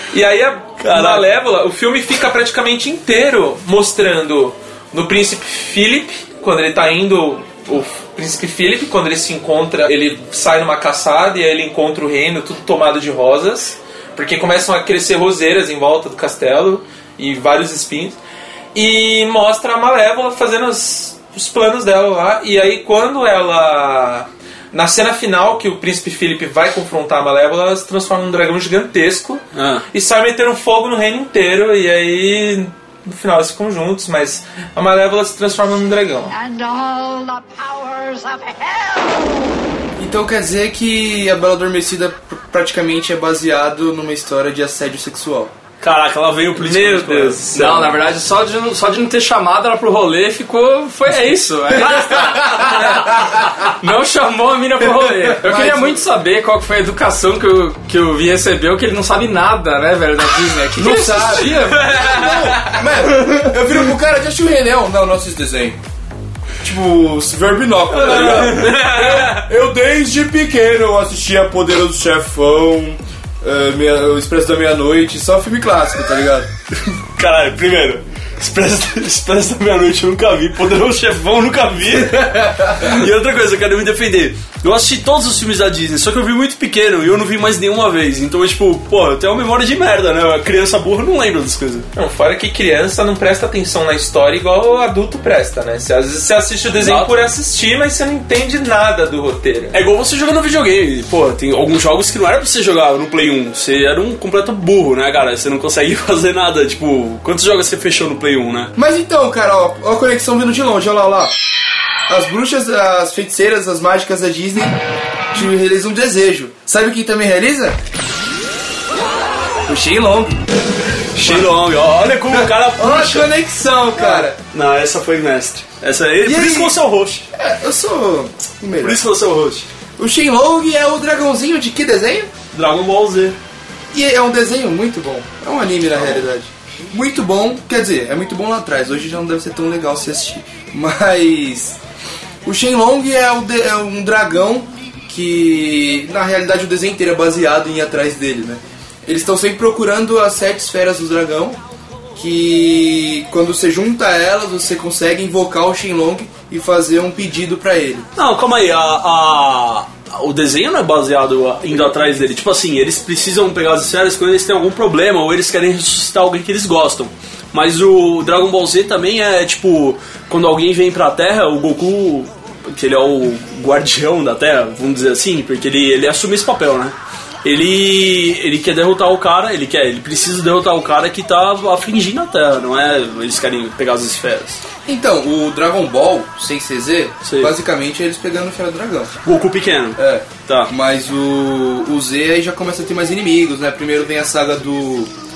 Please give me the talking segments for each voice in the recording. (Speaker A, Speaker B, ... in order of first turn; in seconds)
Speaker A: 0.1-18.2, 18.7-36.3, 46.5-47.9, 61.6-62.9, 68.0-69.4, 91.9-99.8
Speaker B: 0.8-1.3, 29.5-29.8, 45.8-47.9, 68.1-68.6, 76.9-91.9, 96.7-97.1, 99.7-108.7, 121.1-123.3, 124.0-127.2, 128.8-129.7, 132.5-133.4, 158.2-184.6, 187.2-187.5, 189.2-190.7
Speaker C: 36.3-39.6
Speaker D: 40.0-45.5, 55.2-56.0, 60.7-65.8, 66.6-76.5, 108.8-111.3, 112.1-114.8, 115.3-117.8, 119.6-120.4, 121.2-121.6, 122.2-124.3, 126.2-126.8, 127.3-129.0, 130.0-132.3, 133.9-141.8, 142.4-151.6, 152.1-158.1, 184.8-189.1, 190.0-195.1
Speaker E: 47.5-62.2